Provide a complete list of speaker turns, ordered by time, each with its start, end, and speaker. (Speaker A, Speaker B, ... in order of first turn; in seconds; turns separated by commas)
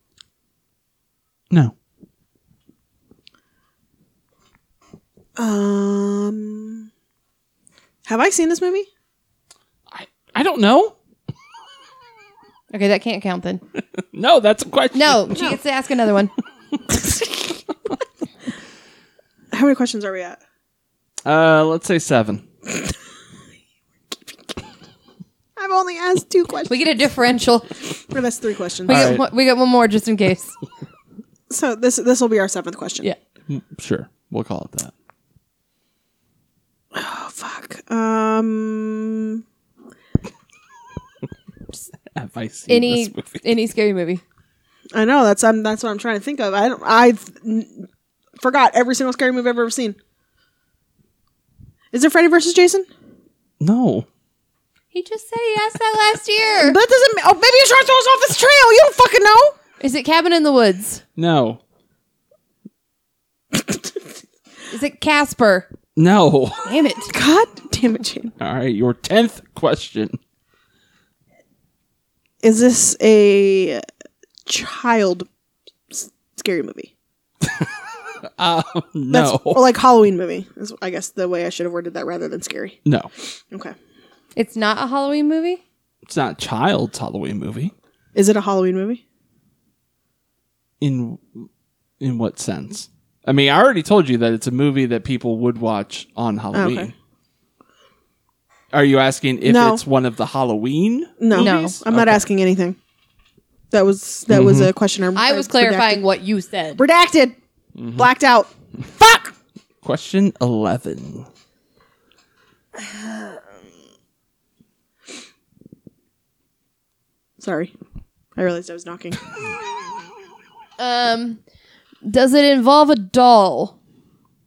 Speaker A: 5.4-6.9, Speaker A: 8.1-8.9, Speaker B: 9.9-10.9, Speaker C: 12.7-13.6, Speaker B: 14.1-15.4, Speaker C: 14.9-16.3, Speaker A: 19.5-20.4, Speaker B: 21.2-22.4, Speaker A: 25.6-26.8, Speaker C: 26.6-27.7, Speaker A: 28.1-29.2, Speaker C: 28.9-30.6, Speaker B: 28.9-29.2, Speaker A: 31.5-33.1, Speaker B: 33.5-34.9, Speaker A: 36.9-39.4, Speaker B: 42.1-43.4, Speaker C: 42.7-44.2, Speaker A: 44.9-47.9, Speaker A: 48.4-50.0, Speaker A: 51.9-52.9, Speaker B: 53.6-54.0, Speaker C: 54.9-56.8, Speaker A: 56.6-59.5, Speaker C: 59.8-61.0, Speaker B: 61.2-61.6, Speaker A: 63.5-63.8, Speaker C: 64.7-65.7, Speaker B: 66.0-66.6, Speaker C: 66.6-67.1, Speaker A: 67.1-68.3, Speaker B: 68.4-70.2, Speaker A: 72.4-73.8, Speaker A: 74.5-75.3, Speaker A: 75.9-76.9, Speaker B: 78.4-79.6, Speaker A: 79.1-82.8, Speaker B: 82.8-83.1, Speaker C: 84.3-85.6, Speaker B: 86.0-87.7, Speaker A: 88.1-89.0, Speaker B: 90.8-91.5, Speaker B: 92.0-96.9, Speaker A: 96.5-96.9, Speaker B: 98.7-102.2, Speaker A: 99.4-99.8, Speaker A: 101.2-102.8, Speaker C: 101.3-101.8, Speaker A: 103.7-106.0, Speaker B: 104.3-104.7, Speaker C: 105.2-106.8, Speaker A: 106.8-107.3, Speaker B: 107.8-108.1, Speaker A: 108.0-109.3, Speaker B: 109.8-111.3, Speaker A: 117.4-117.7, Speaker A: 118.3-119.2, Speaker C: 120.8-121.4, Speaker C: 122.0-123.8